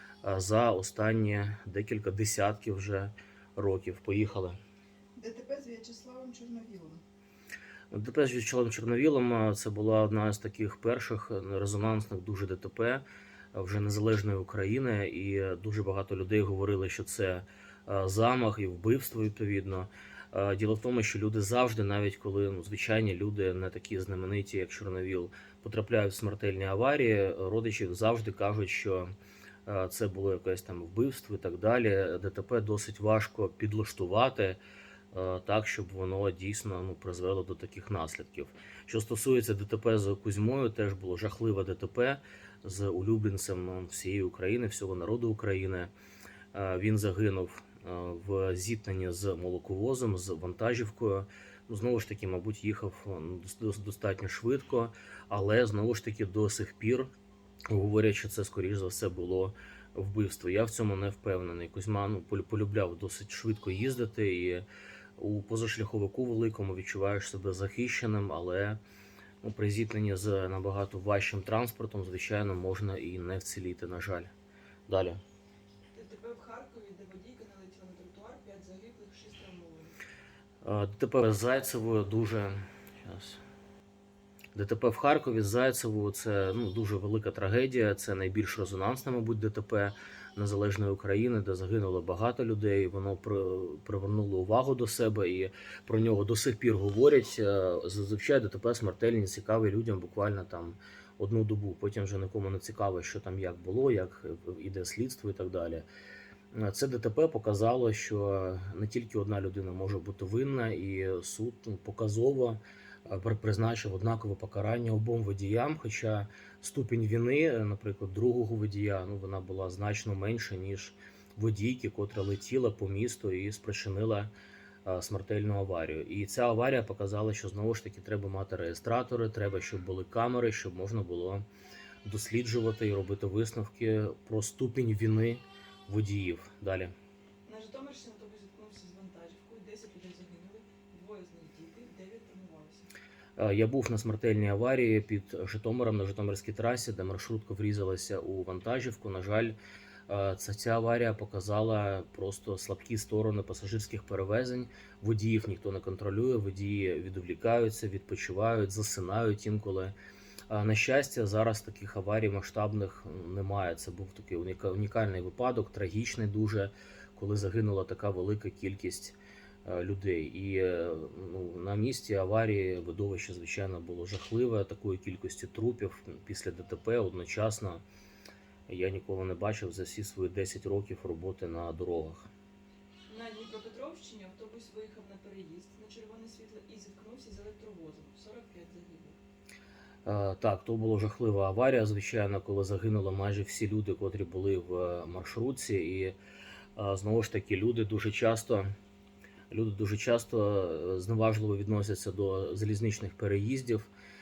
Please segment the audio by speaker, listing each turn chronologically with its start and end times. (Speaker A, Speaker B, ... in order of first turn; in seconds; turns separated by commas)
Speaker A: 0.2-4.6, Speaker B: 5.2-7.0, Speaker A: 7.9-29.1, Speaker A: 29.6-34.6, Speaker A: 35.1-45.9, Speaker A: 46.5-57.1, Speaker A: 57.7-64.7, Speaker A: 65.2-68.8, Speaker A: 69.4-74.3, Speaker A: 74.9-75.2, Speaker B: 75.9-80.0, Speaker A: 80.6-83.4, Speaker A: 84.5-105.8, Speaker A: 106.5-124.3, Speaker A: 124.8-131.5, Speaker A: 132.0-136.9, Speaker B: 137.4-142.9, Speaker A: 143.4-149.6, Speaker A: 150.1-159.9, Speaker A: 160.5-177.8, Speaker A: 178.7-182.3, Speaker B: 183.1-189.2, Speaker A: 190.0-196.2, Speaker A: 196.8-198.7, Speaker A: 199.5-203.9